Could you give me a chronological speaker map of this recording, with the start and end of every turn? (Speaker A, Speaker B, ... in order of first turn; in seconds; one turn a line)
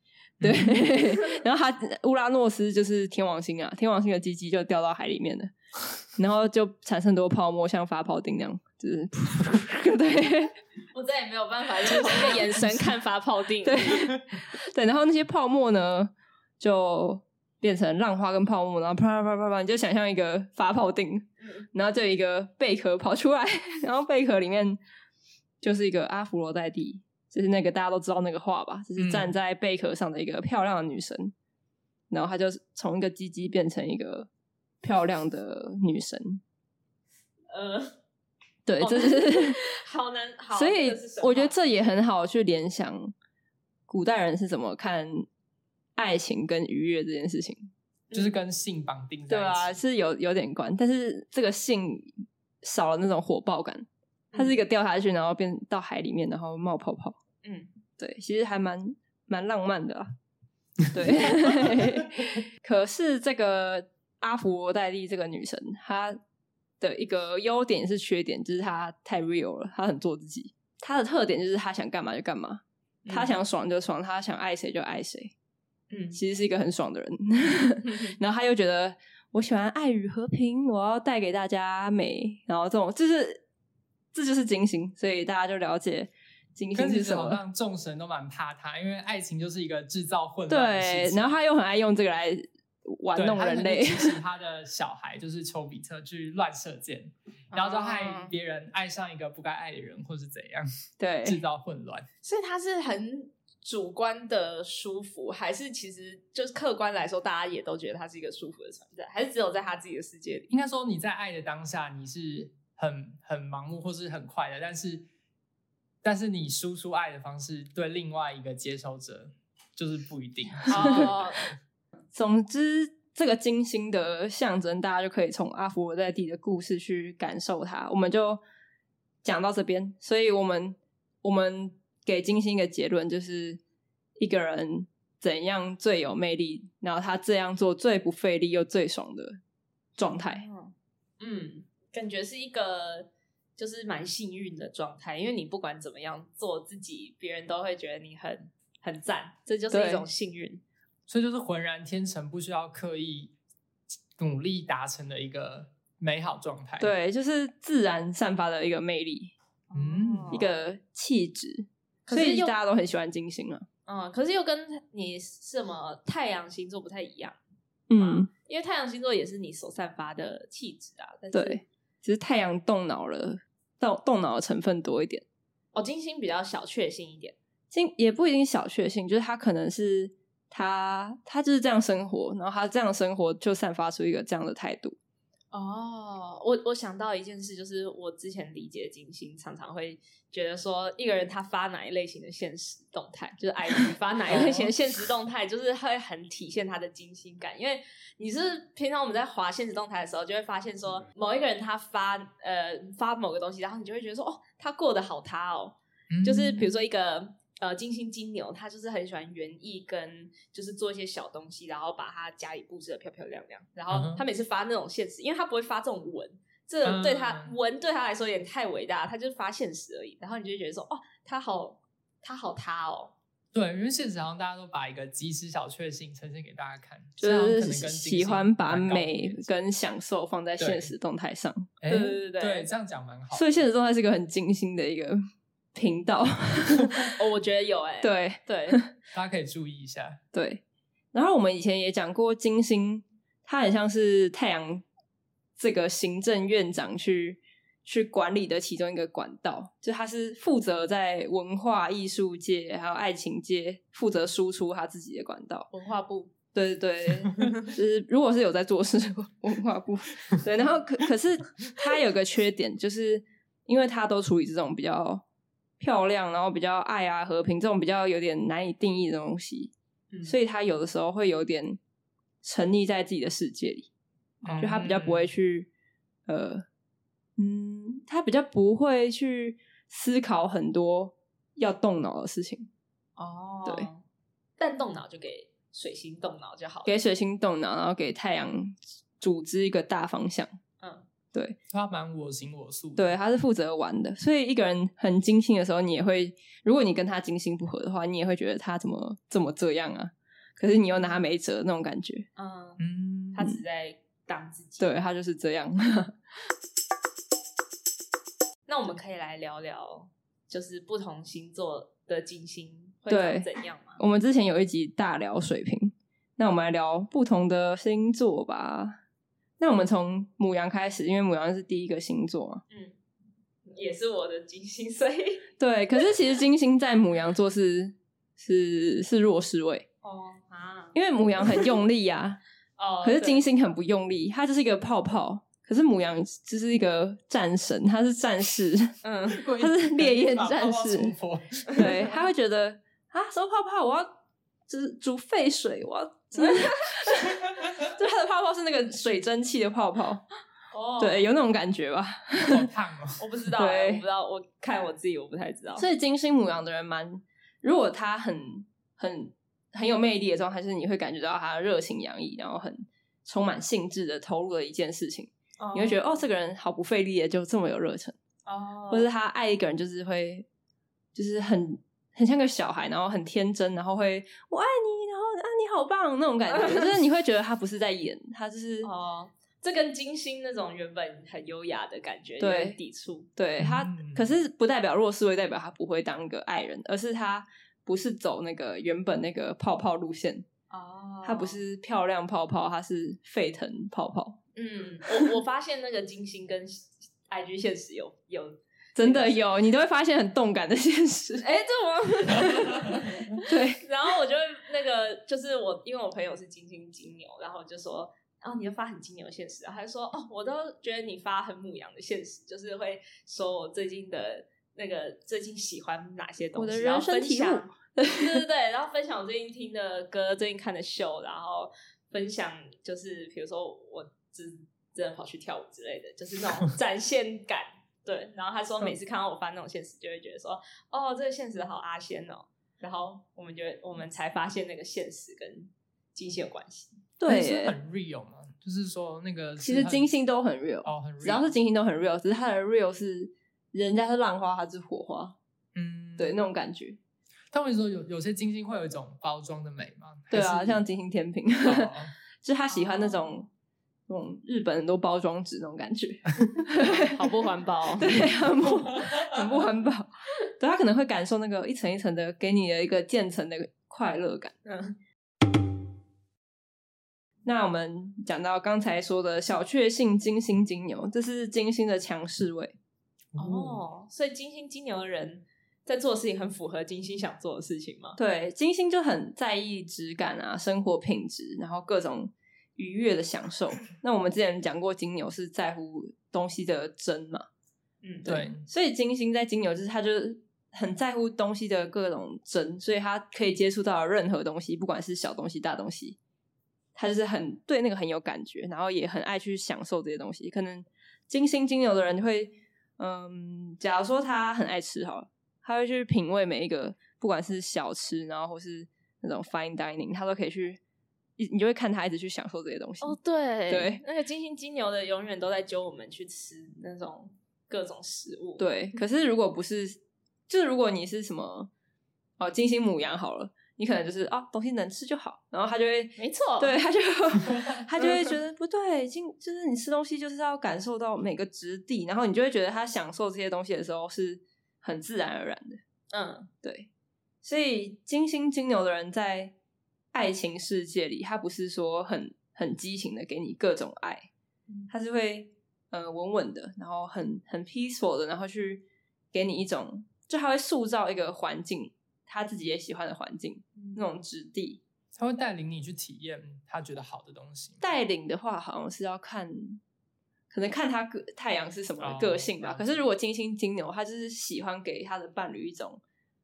Speaker A: 0.4-0.9
Speaker B: 0.4-5.5
Speaker B: 6.2-10.6
Speaker C: 10.9-14.0
Speaker B: 11.9-12.8
Speaker B: 13.6-24.8
Speaker C: 21.4-21.7
Speaker B: 25.6-31.3
Speaker A: 28.9-29.3
Speaker B: 32.1-34.3
Speaker B: 34.8-36.4
Speaker C: 37.5-37.9
Speaker B: 38.6-39.6
Speaker C: 38.8-41.6
Speaker B: 40.5-43.1
Speaker B: 43.9-45.2
Speaker B: 46.0-47.7
Speaker C: 48.1-48.3
Speaker A: 48.1-49.8
Speaker B: 49.3-57.2
Speaker C: 57.4-57.7
Speaker B: 58.0-60.1
Speaker B: 60.9-66.2
Speaker B: 66.8-75.3
Speaker C: 73.0-73.3
Speaker C: 75.9-76.2
Speaker B: 76.1-83.4
Speaker C: 77.8-78.2
Speaker B: 84.1-87.4
Speaker A: 86.7-91.3
Speaker B: 90.5-94.2
Speaker A: 93.1-100.7
Speaker C: 97.5-98.3
Speaker B: 101.0-101.4
Speaker A: 101.2-102.1
Speaker C: 102.2-110.5
Speaker A: 110.5-115.1
Speaker A: 116.0-121.5
Speaker C: 120.7-121.5
Speaker B: 120.7-121.0
Speaker B: 122.1-128.4
Speaker B: 129.2-133.6
Speaker B: 134.2-139.4
Speaker B: 139.9-140.4
Speaker C: 140.3-150.6
Speaker B: 149.7-150.1
Speaker A: 151.1-153.3
Speaker A: 154.2-156.9
Speaker B: 156.8-159.3
Speaker C: 159.7-160.4
Speaker A: 159.7-160.4
Speaker B: 160.3-163.7
Speaker C: 162.1-162.5
Speaker C: 163.8-167.4
Speaker B: 167.9-168.3
Speaker C: 168.0-171.6
Speaker B: 171.3-175.2
Speaker C: 175.7-177.3
Speaker B: 177.7-185.0
Speaker C: 185.5-223.1
Speaker B: 194.3-194.7
Speaker A: 194.3-194.7
Speaker A: 206.1-206.7
Speaker A: 213.9-214.2
Speaker A: 216.8-217.5
Speaker A: 223.5-229.5
Speaker B: 227.2-232.1
Speaker A: 230.6-230.9
Speaker A: 231.8-233.6
Speaker C: 231.9-232.7
Speaker B: 233.3-235.2
Speaker B: 235.7-237.2
Speaker C: 237.1-238.8
Speaker B: 238.0-238.9
Speaker A: 239.1-240.2
Speaker B: 240.3-244.8
Speaker B: 245.6-255.7
Speaker C: 255.7-256.3
Speaker B: 256.5-265.2
Speaker B: 265.8-269.7
Speaker B: 270.2-271.8
Speaker B: 272.4-273.9
Speaker C: 274.4-275.0
Speaker A: 274.4-275.2
Speaker B: 274.6-275.7
Speaker B: 276.3-276.6
Speaker B: 277.4-282.7
Speaker C: 283.2-284.0
Speaker C: 284.6-286.9
Speaker B: 286.9-290.5
Speaker C: 290.8-291.1
Speaker A: 291.7-293.1
Speaker B: 292.9-302.3
Speaker C: 300.9-301.2
Speaker C: 302.4-302.8
Speaker A: 302.8-303.4
Speaker C: 303.3-305.0
Speaker B: 304.8-306.2
Speaker C: 308.7-314.0
Speaker B: 313.1-319.0
Speaker B: 319.6-322.6
Speaker C: 322.7-323.0
Speaker C: 323.6-325.4
Speaker B: 325.6-329.9
Speaker C: 330.0-331.6
Speaker B: 330.9-332.4
Speaker C: 332.8-333.5
Speaker B: 333.0-339.0
Speaker C: 339.0-339.4
Speaker A: 339.3-342.0
Speaker B: 339.5-341.1
Speaker B: 341.7-350.2
Speaker C: 341.8-342.2
Speaker C: 346.3-347.1
Speaker C: 350.7-351.3
Speaker B: 351.0-352.7
Speaker A: 352.5-353.2
Speaker C: 353.2-355.9
Speaker B: 353.5-354.0
Speaker B: 355.8-368.1
Speaker C: 365.6-366.0
Speaker C: 368.4-369.1
Speaker B: 368.9-370.4
Speaker B: 371.1-378.9
Speaker C: 376.5-376.9
Speaker C: 378.8-383.3
Speaker B: 382.4-382.8
Speaker B: 383.4-390.4
Speaker A: 383.6-384.2
Speaker C: 390.7-391.6
Speaker B: 391.2-394.4
Speaker C: 394.5-399.4
Speaker B: 398.9-401.5
Speaker C: 401.4-437.0
Speaker B: 403.4-403.8
Speaker B: 416.6-418.4
Speaker B: 437.2-437.8
Speaker A: 437.3-440.1
Speaker B: 439.6-445.4
Speaker A: 440.9-441.5
Speaker A: 445.7-446.4
Speaker B: 446.2-447.0
Speaker A: 447.5-450.8
Speaker B: 450.3-453.5
Speaker A: 451.6-452.1
Speaker C: 452.7-453.4
Speaker B: 454.1-457.1
Speaker C: 456.8-458.2
Speaker B: 458.0-464.5
Speaker C: 464.6-464.9
Speaker B: 467.4-472.8
Speaker A: 473.3-473.8
Speaker C: 473.4-478.2
Speaker B: 478.2-487.5
Speaker C: 488.0-488.4
Speaker A: 488.2-488.6
Speaker B: 488.2-496.2
Speaker B: 496.9-510.8
Speaker B: 511.4-513.1
Speaker C: 513.0-518.6
Speaker B: 513.7-514.0
Speaker B: 518.6-521.7
Speaker B: 522.4-535.8
Speaker C: 526.2-526.8
Speaker C: 536.1-536.5
Speaker B: 536.6-536.9
Speaker B: 537.4-539.5
Speaker B: 540.1-544.3
Speaker B: 544.9-554.8
Speaker C: 553.8-554.0
Speaker A: 555.1-557.8
Speaker B: 557.8-559.8
Speaker B: 560.5-566.0
Speaker A: 562.0-562.9